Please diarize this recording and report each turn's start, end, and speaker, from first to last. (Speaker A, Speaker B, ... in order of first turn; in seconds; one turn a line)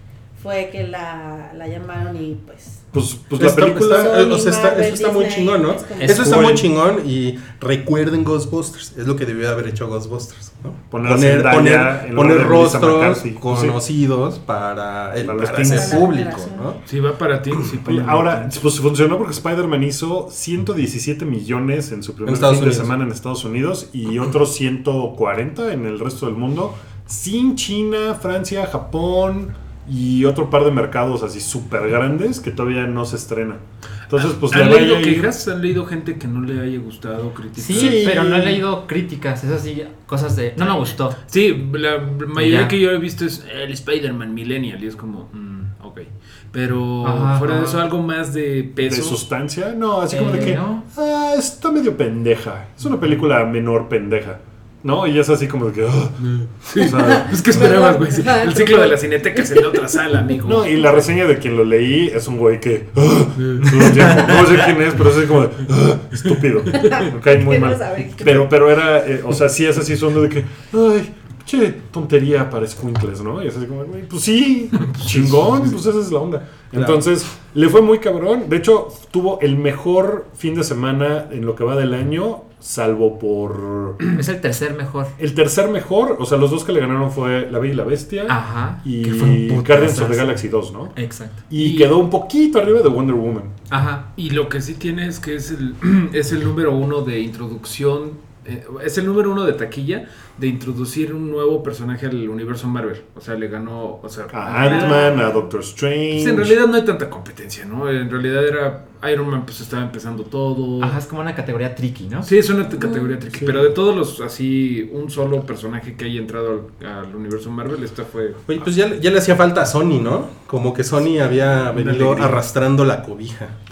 Speaker A: 0.4-2.8
Speaker B: 2.9-4.2
Speaker C: 3.4-16.8
Speaker A: 3.9-6.6
Speaker D: 6.0-6.7
Speaker B: 10.9-13.8
Speaker B: 15.2-16.2
Speaker A: 15.5-16.7
Speaker E: 16.9-18.6
Speaker B: 17.9-35.3
Speaker C: 22.3-22.9
Speaker E: 34.1-38.1
Speaker D: 37.6-41.2
Speaker B: 37.7-38.6
Speaker E: 40.6-49.2
Speaker D: 42.4-42.8
Speaker D: 47.0-47.8
Speaker B: 48.8-57.4
Speaker D: 50.1-50.8
Speaker E: 50.3-50.6
Speaker E: 56.2-61.0
Speaker A: 56.8-59.9
Speaker B: 60.5-84.0
Speaker E: 63.4-63.7
Speaker A: 66.8-68.5
Speaker E: 74.8-75.2
Speaker C: 76.7-77.0
Speaker D: 84.1-85.1
Speaker B: 85.2-91.0
Speaker D: 88.3-90.3
Speaker D: 91.0-91.4
Speaker B: 91.5-93.5
Speaker E: 91.6-92.0
Speaker D: 93.7-94.0
Speaker E: 94.2-105.2
Speaker B: 104.3-106.6
Speaker A: 104.6-105.5
Speaker E: 106.1-111.0
Speaker D: 110.8-112.3
Speaker E: 112.2-118.4
Speaker A: 112.7-113.2
Speaker B: 113.3-113.7
Speaker C: 118.5-123.5
Speaker E: 121.7-122.4